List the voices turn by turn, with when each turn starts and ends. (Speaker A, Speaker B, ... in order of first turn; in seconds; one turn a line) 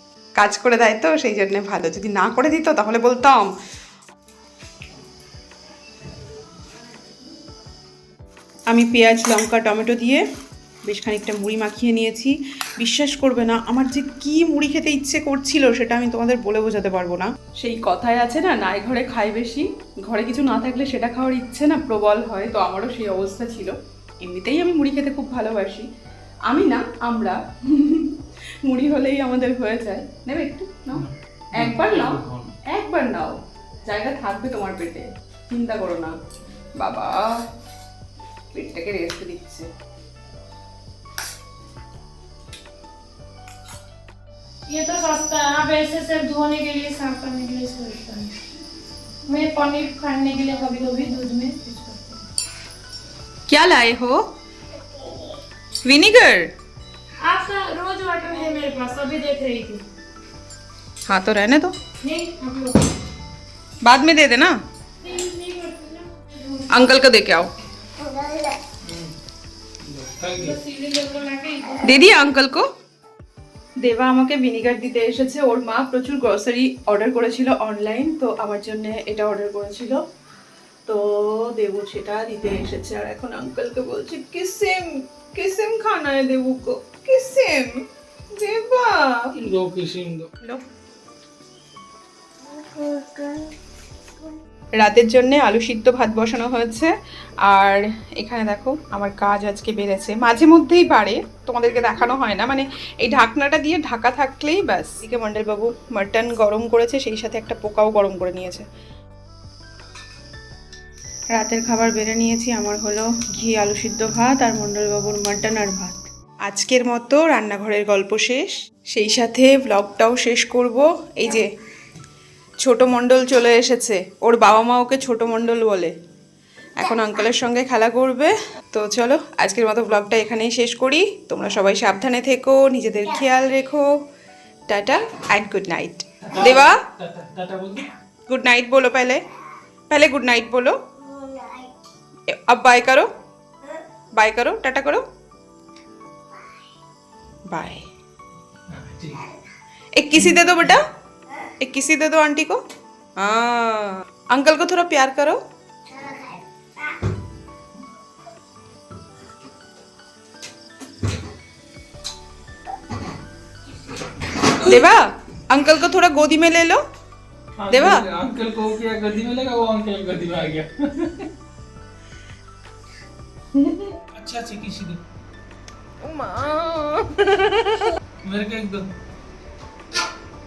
Speaker A: 0.4-3.5
Speaker A: 8.7-10.2
Speaker A: 10.9-25.9
Speaker A: 26.5-31.0
Speaker B: 30.9-32.5
Speaker A: 31.6-36.1
Speaker A: 36.8-37.2
Speaker A: 38.5-39.7
Speaker C: 44.7-48.3
Speaker C: 49.3-52.2
Speaker A: 53.5-54.2
Speaker A: 55.8-56.5
Speaker C: 57.2-59.8
Speaker A: 61.1-61.7
Speaker C: 62.0-62.9
Speaker A: 63.8-64.5
Speaker C: 65.0-66.7
Speaker A: 66.7-67.5
Speaker B: 68.8-69.1
Speaker B: 69.8-70.6
Speaker C: 70.4-72.0
Speaker A: 71.8-72.6
Speaker A: 73.8-80.0
Speaker A: 80.8-89.3
Speaker B: 89.4-90.3
Speaker A: 92.8-93.4
Speaker A: 94.8-96.9
Speaker A: 97.5-108.6
Speaker A: 111.3-121.5
Speaker A: 122.6-125.9
Speaker A: 126.8-133.9
Speaker A: 134.7-136.8
Speaker B: 136.2-137.9
Speaker A: 138.3-139.2
Speaker A: 139.9-140.7
Speaker C: 141.4-141.6
Speaker A: 142.5-143.1
Speaker A: 144.2-145.0
Speaker A: 147.5-147.8
Speaker B: 148.7-149.3
Speaker A: 150.0-150.8
Speaker B: 150.2-150.7
Speaker A: 151.6-152.6
Speaker A: 153.2-155.4
Speaker A: 164.6-166.8
Speaker B: 167.6-171.3
Speaker A: 167.7-168.0
Speaker A: 173.6-173.8
Speaker B: 174.1-175.0
Speaker A: 176.1-177.5
Speaker B: 178.2-178.9